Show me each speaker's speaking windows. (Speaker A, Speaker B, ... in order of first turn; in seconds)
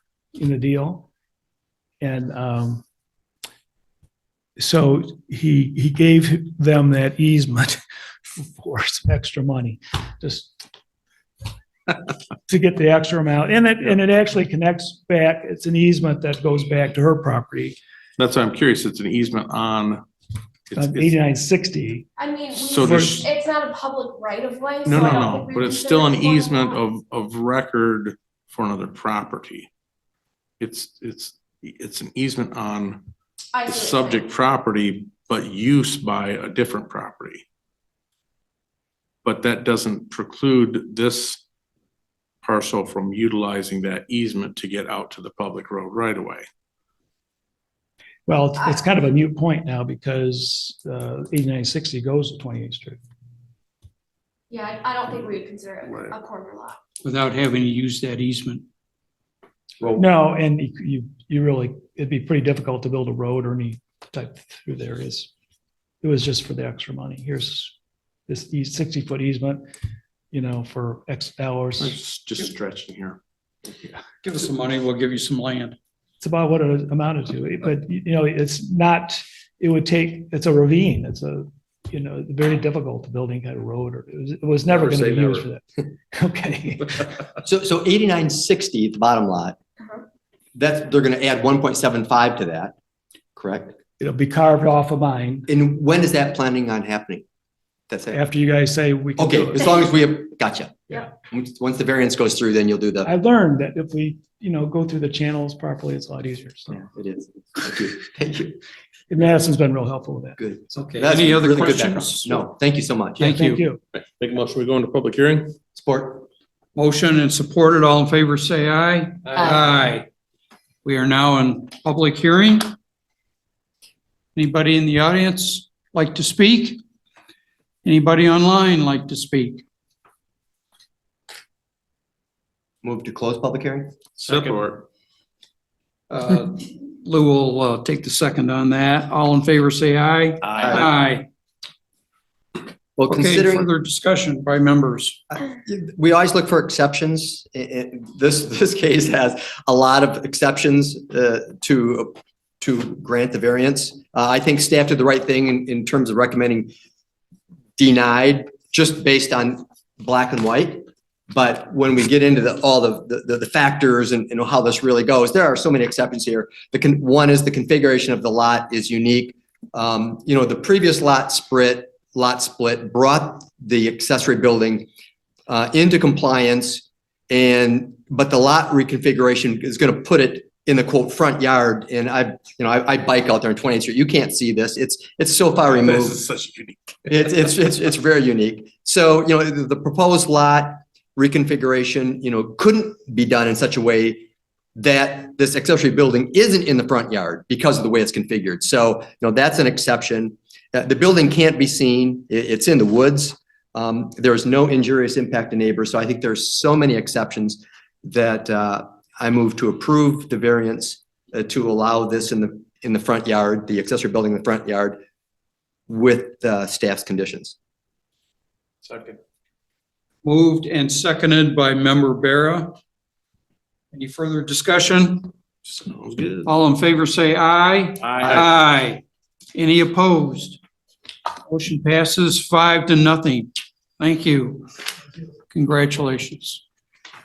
Speaker A: 0.3-1.1, 2.0-2.8, 4.6-7.8, 8.3-10.6, 12.5-17.8, 20.8-22.1, 22.8-23.2, 48.3-53.0, 60.0-65.3, 66.0-67.7, 68.3-69.6, 70.3-72.0, 76.2-87.0, 94.0-95.5, 98.1-99.9, 103.0-106.8, 109.1-110.4, 113.2-113.8
Speaker B: 18.2-20.0, 20.7-21.1, 22.5-23.3, 24.8-29.7, 30.6-33.0, 33.6-37.4, 39.2-41.4, 42.4-46.5, 71.8-73.2, 113.9-115.5, 134.2-134.8, 185.7-186.8, 225.7-226.5, 228.0-228.5
Speaker C: 22.2-26.8, 33.5-34.3, 54.5-56.8
Speaker D: 57.0-58.6, 74.2-75.8, 110.7-112.4, 113.2-113.6, 116.7-120.1, 120.8-122.7, 124.3-126.8, 127.8-129.6, 136.1-141.3, 143.1-145.2, 220.2-222.8, 223.9-225.3, 226.4-229.0, 229.5-230.6, 231.5-234.7, 235.5-236.6
Speaker E: 87.4-89.6, 90.5-92.7, 93.3-93.7, 95.5-97.2, 97.9-98.2, 99.2-103.1, 106.7-108.6, 110.4-113.2, 115.7-116.3, 132.8-133.9, 143.0-143.7, 145.3-156.7, 157.8-174.9, 175.5-186.2, 187.1-215.0, 215.9-217.6